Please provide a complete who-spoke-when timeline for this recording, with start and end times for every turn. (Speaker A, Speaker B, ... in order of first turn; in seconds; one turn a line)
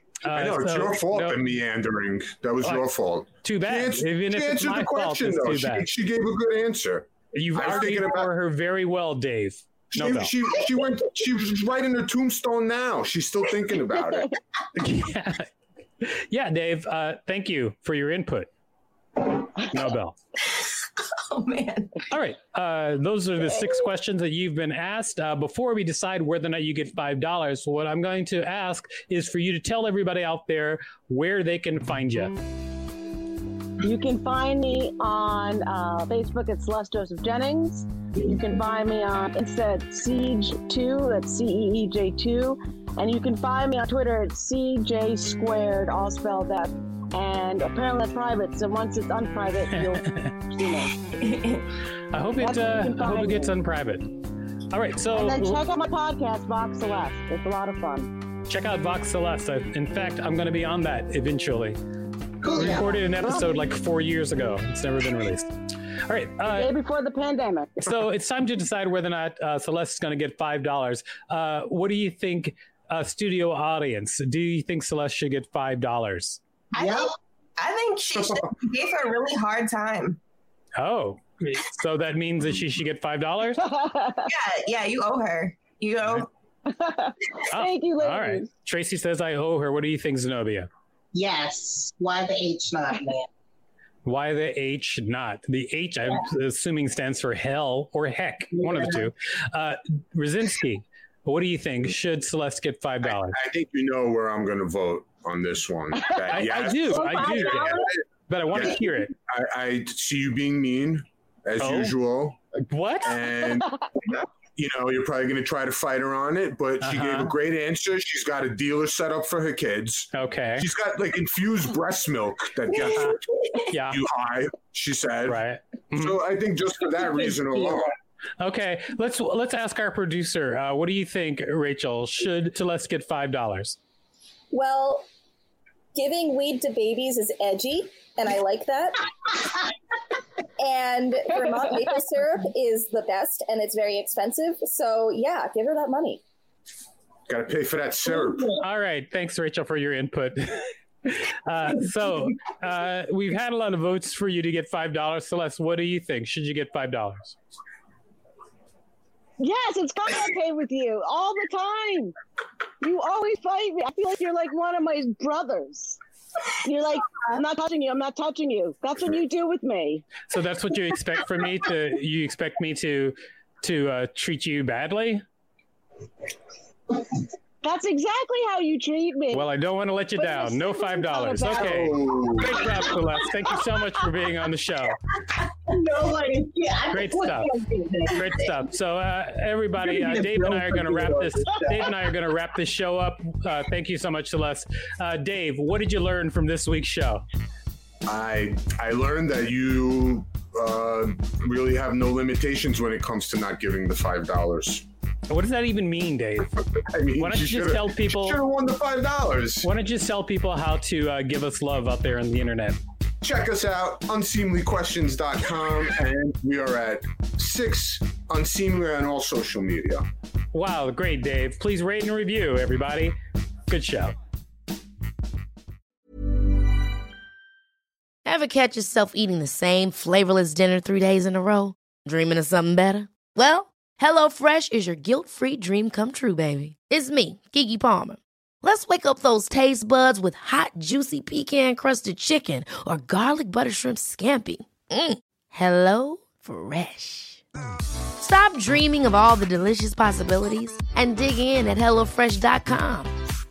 Speaker A: 0.2-1.4
Speaker B: 0.3-8.3
Speaker A: 3.4-5.9
Speaker A: 7.3-10.3
Speaker B: 9.9-14.3
Speaker A: 14.8-15.5
Speaker A: 16.0-18.5
Speaker A: 19.7-20.2
Speaker C: 20.4-22.1
Speaker A: 22.1-32.4
Speaker D: 33.8-50.9
Speaker A: 50.0-50.3
Speaker C: 51.2-51.7
Speaker A: 52.1-54.1
Speaker D: 52.4-53.5
Speaker A: 54.7-55.6
Speaker D: 55.1-58.1
Speaker A: 58.5-61.8
Speaker E: 62.4-63.0
Speaker A: 62.5-65.5
Speaker A: 66.1-66.7
Speaker D: 66.5-67.8
Speaker A: 67.8-76.4
Speaker C: 76.7-80.2
Speaker E: 76.8-77.1
Speaker A: 80.8-83.6
Speaker D: 83.6-84.3
Speaker C: 84.3-86.3
Speaker D: 86.7-88.5
Speaker A: 87.5-90.7
Speaker E: 91.1-93.3
Speaker A: 94.0-103.3
Speaker E: 98.6-99.1
Speaker B: 103.3-107.9
Speaker D: 106.0-107.8
Speaker A: 106.3-109.1
Speaker B: 108.5-108.8
Speaker B: 109.3-112.4
Speaker A: 111.6-111.9
Speaker A: 112.6-113.2
Speaker B: 113.0-113.8
Speaker B: 114.5-123.2
Speaker A: 116.8-117.3
Speaker A: 120.1-120.7
Speaker A: 122.9-123.2
Speaker A: 123.7-124.0
Speaker B: 123.9-125.4
Speaker A: 125.3-126.2
Speaker B: 125.9-127.9
Speaker A: 128.4-133.8
Speaker F: 134.5-135.1
Speaker F: 135.9-139.0
Speaker F: 140.6-146.2
Speaker B: 147.3-148.5
Speaker E: 148.1-148.6
Speaker A: 148.6-157.4
Speaker D: 159.4-162.2
Speaker D: 162.8-166.0
Speaker D: 166.6-170.1
Speaker A: 170.3-175.2
Speaker D: 177.6-179.5
Speaker A: 179.3-185.0
Speaker D: 180.2-182.0
Speaker B: 181.4-182.6
Speaker E: 185.4-188.6
Speaker A: 186.9-187.5
Speaker A: 188.1-197.2
Speaker E: 189.8-191.9
Speaker B: 198.1-204.8
Speaker A: 205.3-206.6
Speaker B: 206.9-209.7
Speaker A: 207.2-208.4
Speaker A: 209.6-212.8
Speaker B: 213.2-220.1
Speaker A: 220.5-223.2
Speaker A: 223.7-224.2
Speaker G: 228.2-247.4
Speaker G: 248.2-253.1